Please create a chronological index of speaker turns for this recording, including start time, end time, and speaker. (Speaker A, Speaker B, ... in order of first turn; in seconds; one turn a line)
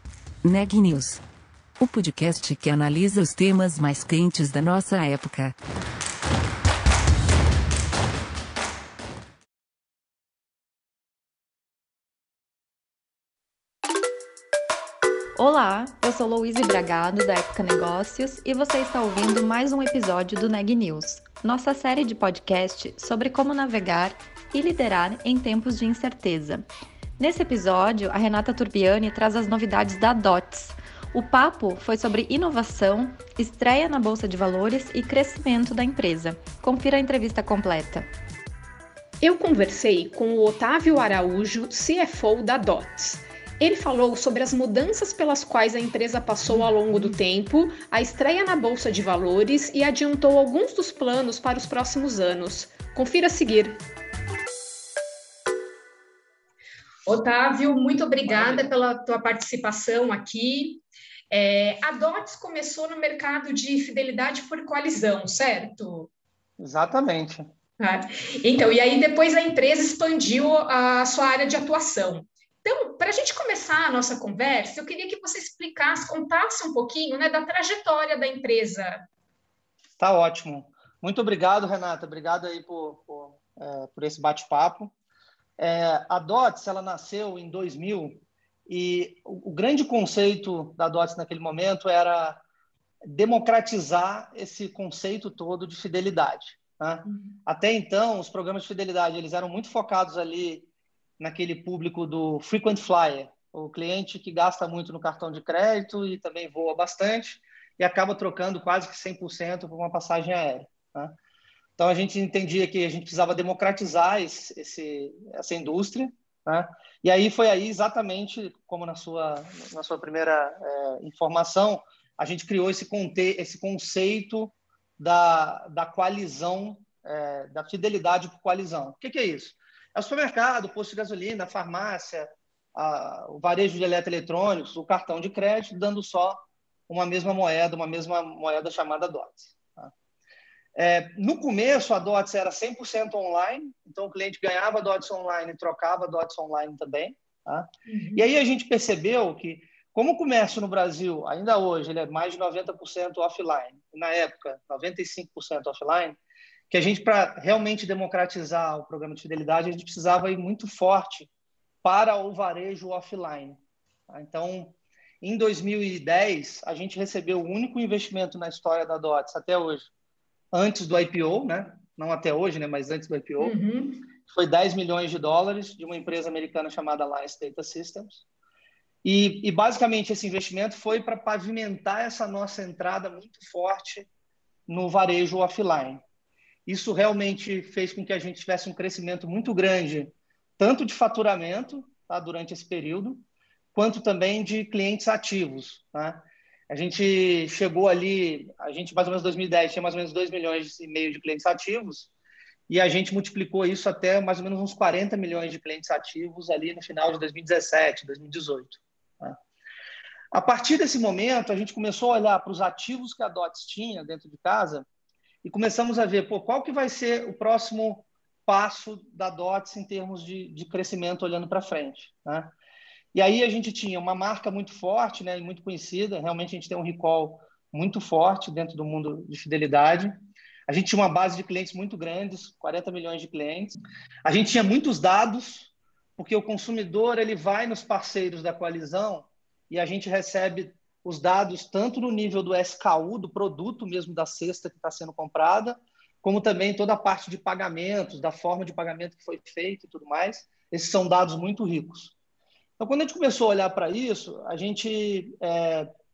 Speaker A: 0.4-1.2
Speaker A: 1.8-5.5
Speaker B: 15.4-26.7
Speaker B: 27.2-38.1
Speaker C: 39.2-53.8
Speaker C: 57.1-66.1
Speaker D: 58.3-58.7
Speaker D: 66.6-67.5
Speaker C: 67.8-79.0
Speaker D: 80.0-84.9
Speaker D: 85.6-92.4
Speaker D: 93.0-100.7
Speaker C: 97.1-97.3
Speaker D: 101.2-111.2
Speaker D: 111.8-139.9
Speaker D: 140.8-156.2
Speaker C: 147.9-148.2
Speaker D: 156.7-161.3
Speaker D: 161.8-163.6
Speaker D: 164.1-169.9
Speaker D: 170.5-173.6
Speaker C: 173.4-174.0
Speaker D: 174.3-178.2
Speaker D: 179.0-184.1
Speaker D: 184.7-186.0
Speaker D: 186.7-193.2
Speaker D: 193.7-202.1
Speaker D: 202.7-209.4
Speaker D: 210.3-214.9
Speaker D: 215.4-222.5
Speaker D: 223.1-230.1
Speaker D: 230.7-252.1
Speaker D: 252.8-255.9